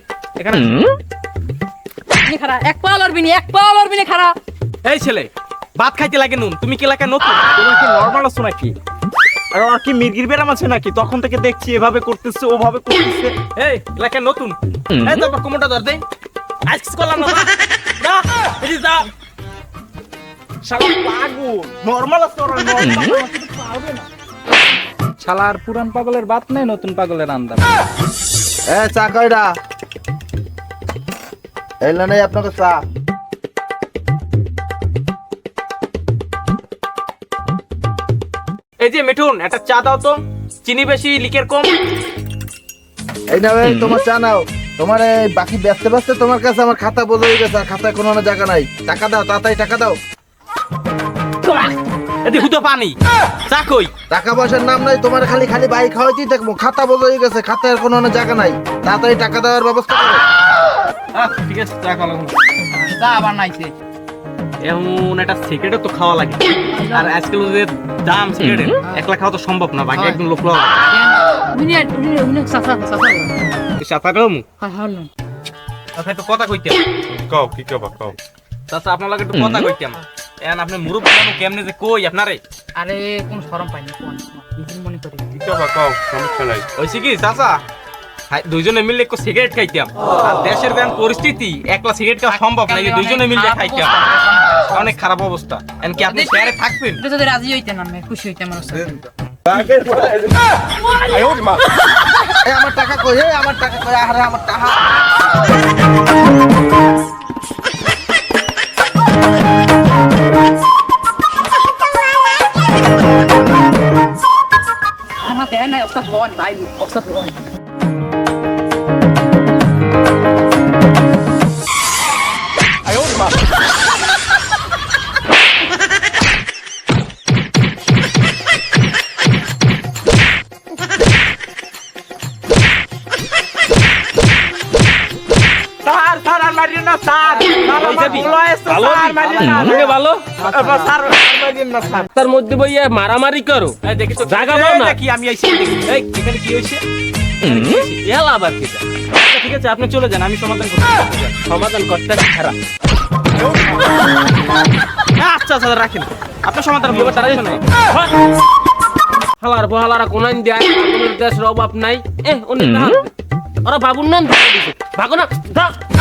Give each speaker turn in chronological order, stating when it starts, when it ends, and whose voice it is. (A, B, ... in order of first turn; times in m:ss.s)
0:00.4-0:00.8 A
0:02.2-0:04.3 B
0:04.8-0:07.5 A
0:07.5-0:08.7 C
0:09.5-0:13.3 C
0:13.6-0:16.0 A
0:16.7-0:19.1 A
0:20.6-0:24.0 C
0:25.2-0:27.6 D
0:28.7-0:29.5 E
0:31.8-0:32.8 E
0:38.8-0:41.7 A
0:43.3-0:50.0 E
0:51.4-0:53.0 A
0:53.5-0:53.9 A
0:54.1-1:00.2 E
1:01.1-1:02.3 A
1:02.7-1:03.7 B
1:04.6-1:06.4 A
1:06.7-1:07.1 B
1:06.9-1:10.7 A
1:09.9-1:10.2 B
1:10.9-1:13.3 B
1:13.8-1:14.4 A
1:14.6-1:15.1 B
1:15.9-1:16.8 A
1:17.1-1:18.2 F
1:18.7-1:22.4 A
1:22.8-1:25.2 B
1:25.3-1:26.6 F
1:26.8-1:27.6 A
1:28.3-1:34.0 A
1:32.3-1:34.9 B
1:34.7-1:37.0 A
1:36.1-1:38.9 B
1:39.5-1:40.0 E
1:42.4-1:44.8 E
1:55.2-1:57.4 B
2:15.8-2:22.1 A
2:17.5-2:18.5 C
2:17.7-2:20.4 G
2:19.2-2:19.9 C
2:20.4-2:20.9 C
2:22.0-2:25.0 G
2:23.8-2:26.8 A
2:27.4-2:28.0 A
2:28.0-2:28.8 G
2:28.6-2:32.5 A
2:31.5-2:32.5 G
2:35.2-2:37.6 A
2:36.9-2:38.1 G
2:39.4-2:43.1 G
2:43.6-2:45.8 G